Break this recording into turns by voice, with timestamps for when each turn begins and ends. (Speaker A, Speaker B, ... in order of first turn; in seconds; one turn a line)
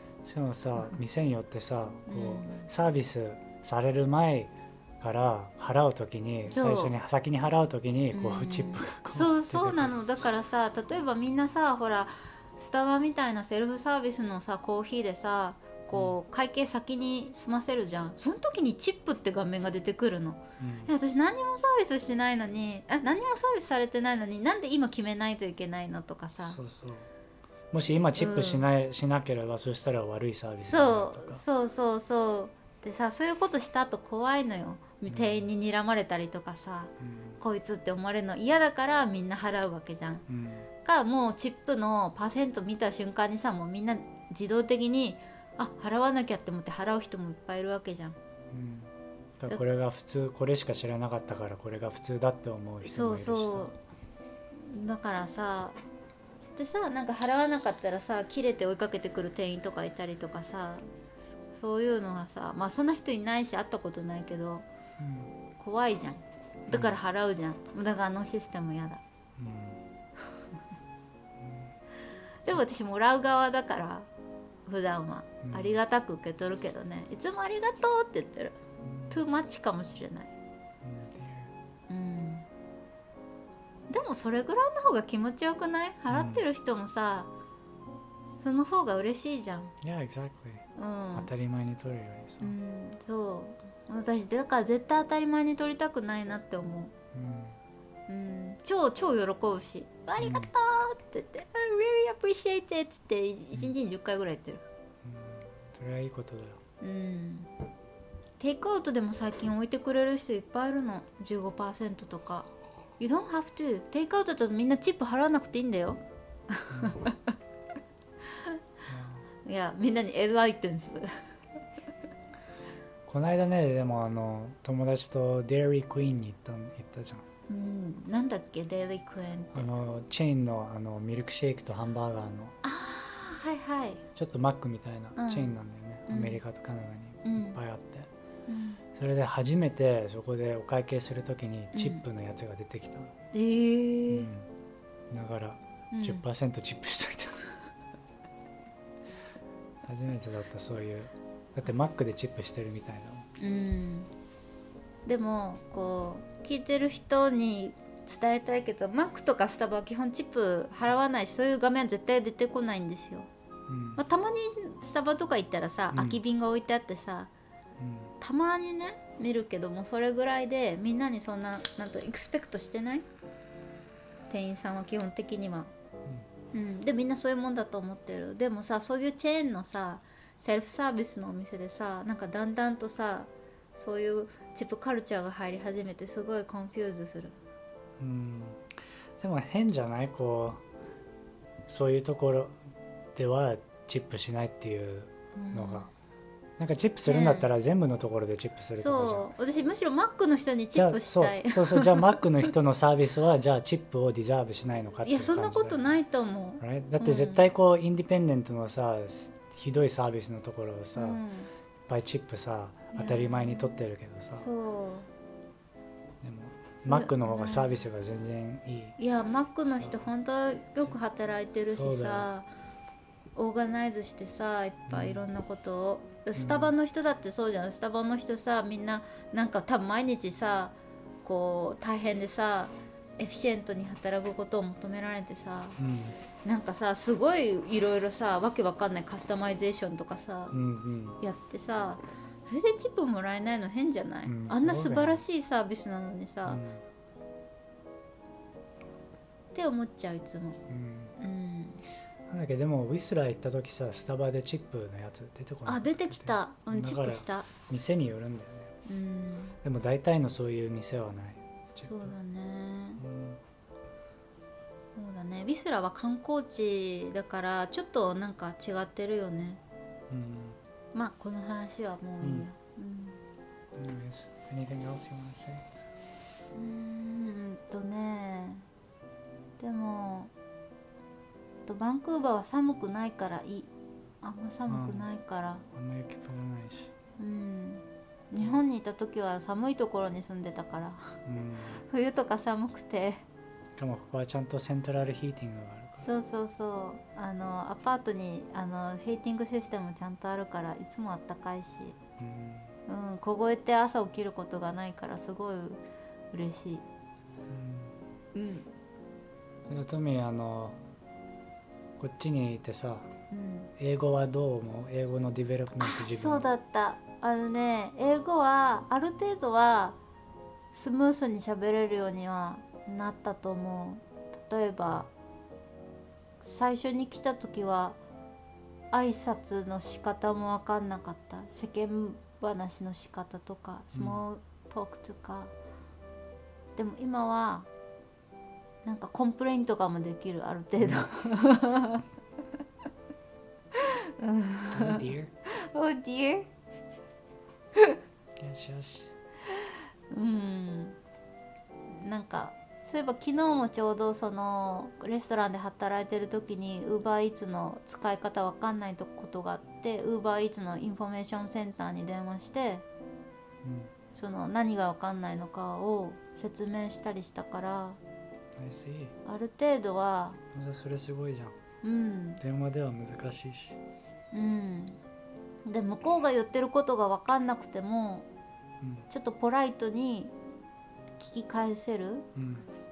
Speaker A: 0.2-10.0
Speaker B: 2.1-2.7
Speaker B: 6.5-6.9
Speaker B: 8.1-26.6
Speaker A: 20.6-20.9
Speaker A: 26.4-27.1
Speaker A: 27.7-31.4
Speaker B: 28.1-28.7
Speaker B: 30.7-40.2
Speaker A: 35.1-35.5
Speaker A: 37.0-37.4
Speaker A: 40.3-40.7
Speaker B: 40.8-48.2
Speaker A: 48.5-53.7
Speaker B: 52.8-53.8
Speaker B: 54.5-55.8
Speaker B: 56.6-60.9
Speaker B: 61.5-64.7
Speaker A: 65.0-65.3
Speaker B: 65.6-69.0
Speaker A: 66.7-67.0
Speaker A: 69.4-69.8
Speaker A: 71.4-71.7
Speaker B: 72.4-74.1
Speaker B: 74.7-78.6
Speaker A: 75.4-75.8
Speaker A: 78.8-79.2
Speaker B: 79.1-80.3
Speaker A: 80.8-81.5
Speaker B: 81.9-82.5
Speaker B: 83.9-87.3
Speaker A: 86.1-86.4
Speaker B: 88.4-89.8
Speaker A: 89.8-92.6
Speaker B: 90.8-91.3
Speaker B: 92.4-96.9
Speaker A: 97.1-97.6
Speaker B: 98.1-104.6
Speaker A: 100.2-100.5
Speaker A: 105.0-106.6
Speaker B: 106.8-107.5
Speaker B: 108.4-117.4
Speaker A: 116.7-117.0
Speaker A: 118.9-119.3
Speaker B: 119.5-121.3
Speaker A: 123.1-127.3
Speaker B: 127.5-129.7
Speaker A: 129.5-132.6
Speaker B: 132.6-134.0
Speaker A: 134.2-138.1
Speaker B: 135.2-135.6
Speaker B: 136.1-136.4
Speaker B: 137.2-137.6
Speaker B: 138.5-138.8
Speaker A: 138.9-143.1
Speaker B: 141.7-142.0
Speaker B: 143.3-144.3
Speaker A: 144.1-144.5
Speaker A: 145.1-147.6
Speaker B: 145.9-146.2
Speaker A: 149.8-153.3
Speaker B: 153.4-154.1
Speaker B: 155.1-163.3
Speaker A: 163.7-164.0
Speaker B: 164.0-167.3
Speaker A: 165.9-166.2
Speaker A: 167.8-168.1
Speaker B: 168.2-173.1
Speaker B: 174.3-175.7
Speaker B: 176.5-187.4
Speaker A: 188.0-190.6
Speaker A: 191.7-192.6
Speaker A: 193.2-195.9
Speaker B: 195.3-195.9
Speaker A: 196.6-199.3
Speaker B: 197.1-197.5
Speaker B: 198.8-202.5
Speaker A: 200.8-205.9
Speaker B: 205.0-207.4
Speaker A: 206.6-211.2
Speaker B: 211.0-211.5
Speaker A: 211.9-214.5
Speaker B: 212.9-213.8
Speaker B: 214.3-215.1
Speaker A: 216.2-219.0
Speaker B: 216.8-217.9
Speaker B: 219.0-222.5
Speaker A: 219.7-220.1
Speaker A: 221.7-222.3
Speaker B: 223.3-235.8
Speaker A: 224.9-225.2
Speaker A: 226.3-226.7
Speaker A: 235.8-236.2
Speaker B: 236.4-240.6
Speaker A: 240.5-241.2
Speaker B: 241.2-246.6
Speaker A: 244.3-245.2
Speaker A: 246.5-246.8
Speaker B: 249.5-250.6
Speaker A: 250.7-251.2
Speaker B: 251.2-251.8
Speaker A: 252.3-258.7
Speaker B: 255.7-257.5
Speaker B: 258.9-259.6
Speaker A: 259.6-262.2
Speaker B: 261.8-263.0
Speaker A: 263.0-263.4
Speaker B: 265.0-269.6
Speaker A: 270.1-270.6
Speaker B: 270.9-273.2
Speaker A: 272.2-272.5
Speaker A: 273.8-275.6
Speaker B: 276.6-278.7
Speaker B: 279.6-280.3
Speaker B: 281.7-283.7
Speaker B: 284.2-285.6
Speaker A: 284.7-285.1
Speaker A: 285.7-286.9
Speaker B: 287.2-291.1
Speaker A: 291.2-291.8
Speaker B: 291.9-293.2
Speaker A: 293.8-296.1
Speaker B: 296.0-302.0
Speaker A: 302.2-302.7
Speaker B: 302.9-305.8
Speaker B: 306.3-306.8
Speaker A: 307.5-307.9
Speaker B: 308.3-308.7
Speaker A: 309.7-310.8
Speaker A: 312.0-313.1
Speaker B: 313.3-313.7
Speaker A: 313.8-316.5
Speaker B: 315.8-320.0
Speaker B: 320.7-325.1
Speaker B: 326.4-328.0
Speaker B: 328.9-335.5
Speaker A: 333.9-334.2
Speaker B: 336.8-337.7
Speaker B: 338.8-342.1
Speaker A: 340.8-341.1
Speaker B: 343.7-346.5
Speaker A: 344.7-345.3
Speaker A: 348.4-349.1
Speaker B: 349.5-351.0
Speaker B: 351.9-362.8
Speaker A: 363.6-363.9
Speaker B: 364.1-368.0
Speaker A: 368.6-369.2
Speaker B: 369.2-370.4
Speaker A: 370.5-371.6
Speaker B: 371.8-372.4
Speaker A: 372.4-373.8
Speaker B: 374.3-375.0
Speaker B: 375.6-378.3
Speaker A: 378.8-379.1
Speaker B: 379.1-380.4
Speaker B: 381.2-382.3
Speaker A: 382.4-382.7